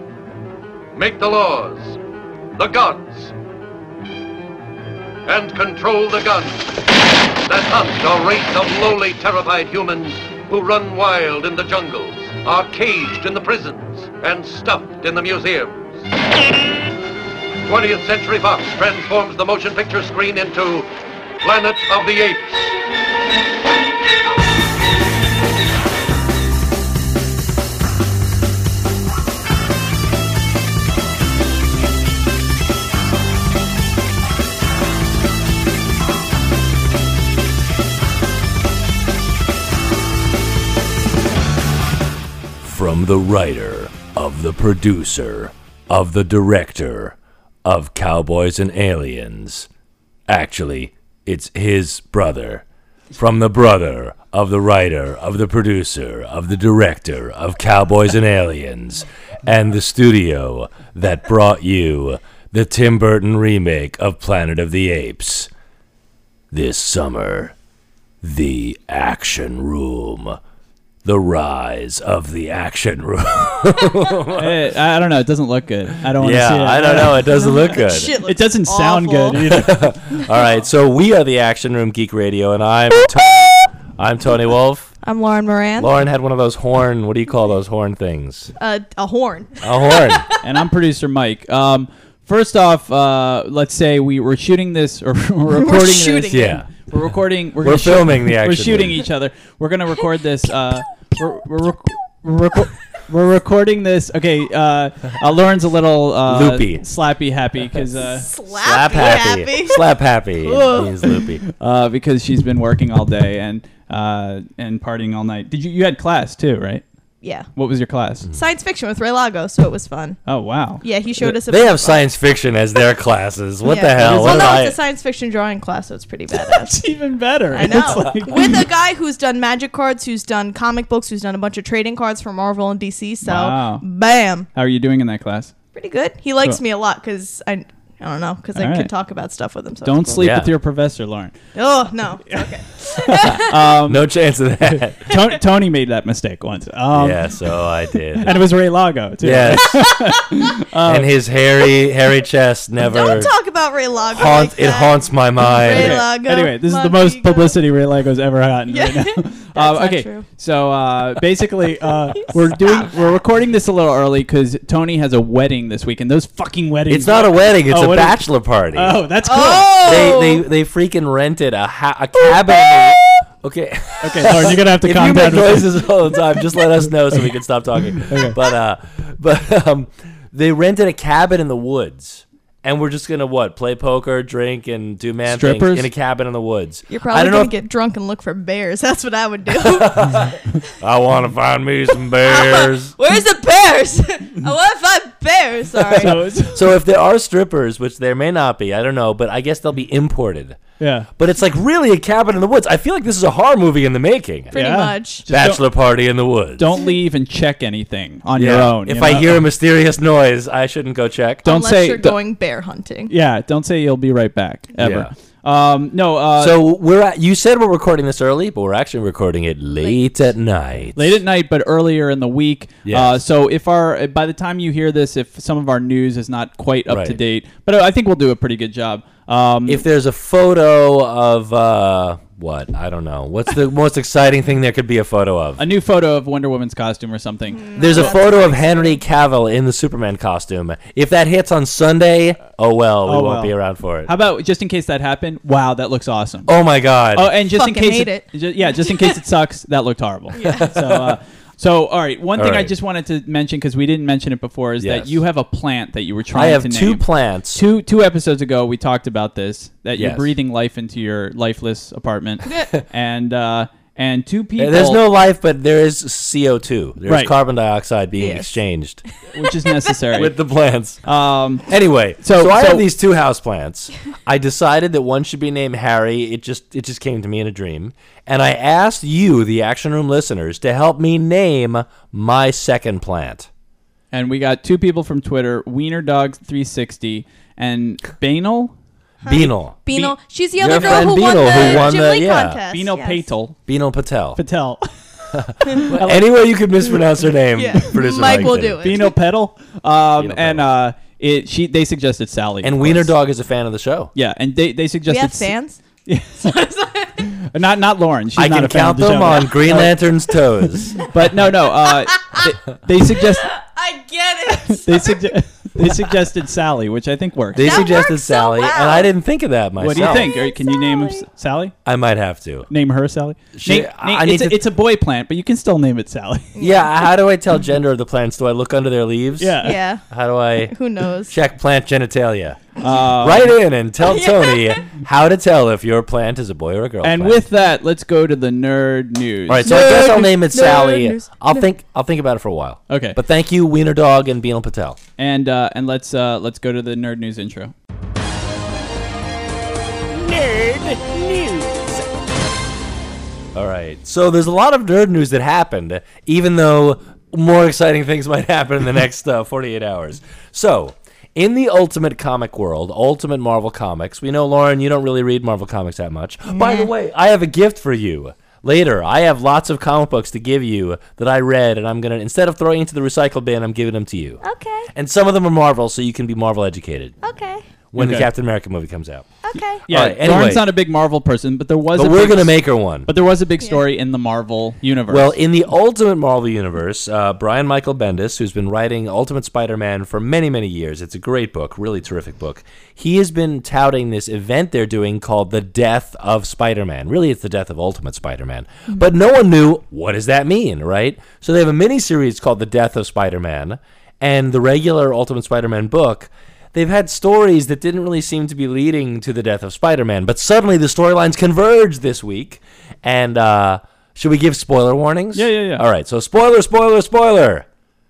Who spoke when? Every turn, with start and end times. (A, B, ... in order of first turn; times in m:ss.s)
0:01.0-0:02.0 A
0:02.6-0:03.3 A
0:05.3-0:06.8 A
0:07.4-0:16.0 A
0:17.6-0:20.9 A
0:21.4-0:22.8 A
0:42.6-0:49.7 B
0:50.3-0:52.6 B
0:53.1-1:05.5 B
1:06.5-1:07.5 B
1:08.2-1:10.4 B
1:11.0-1:14.6 B
1:14.3-1:17.7 C
1:16.1-1:18.2 B
1:17.3-1:20.3 D
1:18.2-1:19.8 C
1:19.5-1:24.9 B
1:25.0-1:25.9 D
1:25.8-1:28.5 B
1:28.6-1:30.4 D
1:29.6-1:30.2 B
1:30.4-1:48.3 C
1:35.5-1:36.6 D
1:36.3-1:36.7 B
1:37.6-1:39.0 B
1:46.3-1:46.8 B
1:48.1-1:49.9 D
1:48.5-1:51.4 B
1:50.4-1:51.3 D
1:51.4-1:56.8 C
1:57.2-1:57.5 D
1:57.6-1:58.3 C
1:58.4-2:00.2 D
2:00.3-2:00.8 C
2:00.8-2:02.1 D
2:01.2-2:04.8 B
2:03.6-2:06.8 D
2:06.3-2:08.6 C
2:07.5-2:14.5 D
2:07.7-2:08.2 B
2:13.2-2:13.8 C
2:14.5-2:15.5 C
2:15.8-2:20.2 D
2:18.6-2:18.9 C
2:19.8-2:21.4 C
2:20.2-2:20.5 B
2:21.6-2:23.8 D
2:22.3-2:24.0 C
2:23.3-2:25.1 B
2:24.7-2:27.6 C
2:26.9-2:28.4 B
2:28.2-2:31.1 C
2:29.2-2:29.9 B
2:30.8-2:33.3 B
2:32.8-2:37.6 D
2:34.1-2:36.0 B
2:35.6-2:50.1 C
2:38.7-2:40.3 D
2:41.9-2:42.9 D
2:46.9-2:49.0 B
2:49.2-2:50.4 D
2:49.6-3:07.5 B
2:52.2-2:53.2 D
2:54.0-2:55.9 C
2:58.1-2:58.4 C
3:05.3-3:05.9 C
3:06.9-3:10.6 D
3:09.6-3:12.9 B
3:12.1-3:16.2 D
3:15.8-3:20.6 B
3:16.0-3:16.6 C
3:20.8-3:21.1 C
3:21.2-3:24.5 B
3:24.5-3:25.2 D
3:24.5-3:25.6 C
3:25.3-3:26.7 B
3:26.6-3:29.4 C
3:28.4-3:31.4 B
3:31.4-3:33.1 D
3:31.4-3:32.2 C
3:33.1-3:36.6 C
3:34.8-3:35.1 B
3:36.4-3:41.2 B
3:41.0-3:49.8 C
3:42.8-3:43.2 B
3:46.9-3:47.2 B
3:49.7-3:55.6 B
3:55.6-3:58.0 C
3:57.6-3:59.0 D
3:57.8-4:04.1 B
4:03.1-4:03.5 C
4:04.0-4:06.5 C
4:06.5-4:07.3 B
4:07.2-4:25.0 C
4:07.5-4:09.1 D
4:10.4-4:10.6 D
4:10.4-4:11.2 B
4:12.4-4:12.7 B
4:14.8-4:15.2 B
4:16.3-4:17.6 B
4:20.0-4:20.3 B
4:24.6-4:29.0 B
4:27.1-4:27.3 C
4:28.2-4:28.5 D
4:29.3-4:30.3 C
4:30.1-4:31.0 B
4:31.0-4:31.6 C
4:31.7-4:43.5 B
4:32.2-4:32.9 C
4:44.1-4:48.7 C
4:49.2-4:53.3 D
4:49.3-4:49.8 B
4:50.6-4:52.6 B
4:50.7-4:51.2 C
4:52.7-4:53.6 C
4:53.7-4:54.4 B
4:54.4-4:54.9 C
4:55.3-4:58.8 B
4:55.6-4:56.3 C
4:57.5-4:59.2 D
4:58.8-5:03.1 C
5:00.2-5:00.7 B
5:02.6-5:04.1 B
5:04.2-5:05.5 C
5:05.1-5:05.8 D
5:06.0-5:06.6 C
5:06.4-5:07.3 D
5:07.2-5:10.0 C
5:08.4-5:11.0 B
5:11.0-5:13.5 C
5:12.1-5:12.4 D
5:13.2-5:15.3 D
5:14.7-5:17.9 C
5:17.5-5:20.3 B
5:17.6-5:19.1 D
5:19.8-5:21.7 C
5:20.0-5:21.2 D
5:21.8-5:22.7 B
5:22.7-5:26.5 C
5:23.5-5:24.6 B
5:26.6-5:27.0 D
5:26.6-5:30.7 B
5:29.4-5:29.8 C
5:29.6-5:30.1 D
5:30.6-5:31.3 D
5:31.3-5:37.4 B
5:32.8-5:33.6 C
5:34.0-5:34.8 D
5:37.0-5:39.8 C
5:39.5-5:45.0 B
5:39.6-5:41.7 D
5:42.9-5:43.2 C
5:45.2-5:47.7 C
5:50.2-5:51.9 B
5:53.5-6:14.4 B
6:06.5-6:06.9 D
6:14.4-6:14.9 D
6:14.9-6:17.2 B
6:17.2-6:17.6 D
6:17.9-6:19.3 B
6:18.0-6:18.3 C
6:19.4-6:19.8 D
6:19.9-6:20.7 B
6:19.9-6:25.4 C
6:22.0-6:23.1 B
6:25.1-6:57.7 B
6:55.3-6:55.8 C